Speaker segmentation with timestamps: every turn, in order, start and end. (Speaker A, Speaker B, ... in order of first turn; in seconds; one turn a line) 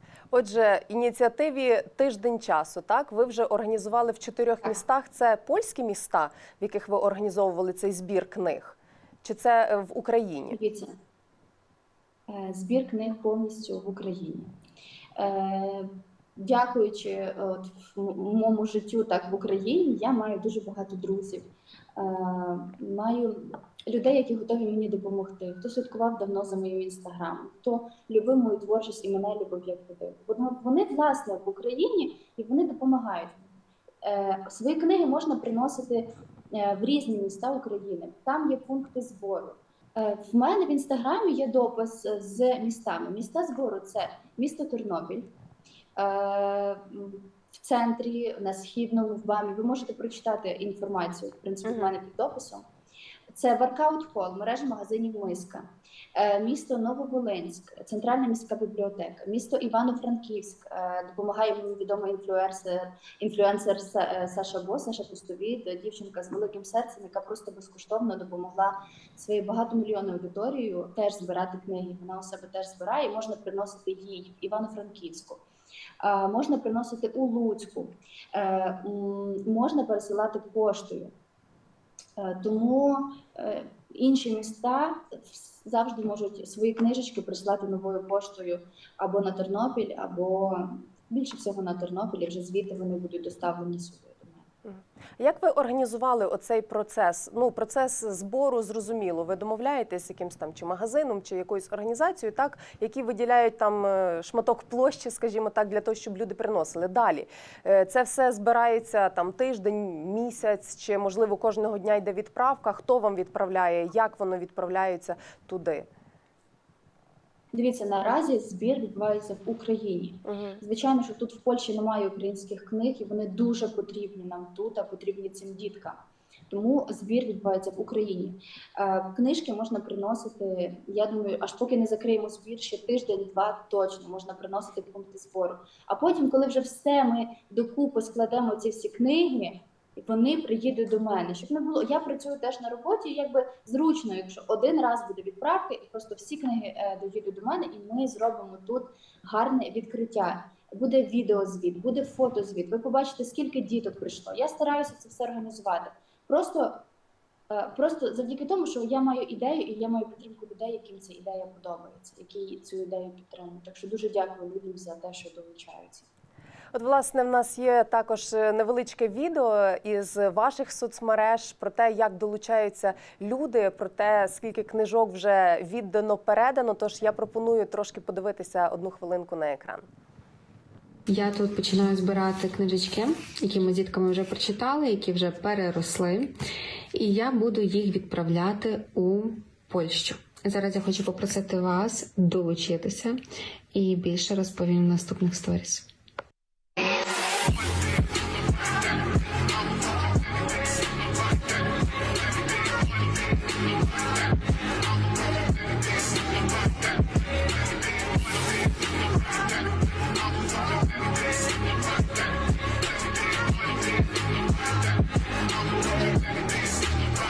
Speaker A: 0.3-10.6
Speaker B: 10.5-10.9
Speaker B: 12.3-14.5
Speaker B: 15.2-33.5
Speaker B: 34.0-45.3
Speaker B: 46.0-52.6
Speaker A: 51.6-51.9
Speaker B: 53.3-75.4
Speaker B: 76.0-81.1
Speaker B: 82.2-94.4
Speaker A: 94.6-115.9
Speaker B: 117.5-126.0
Speaker A: 120.3-120.6
Speaker B: 126.5-156.8
Speaker B: 157.5-166.1
Speaker A: 166.7-179.8
Speaker C: 181.1-186.4
Speaker C: 186.9-193.2
Speaker C: 193.7-195.9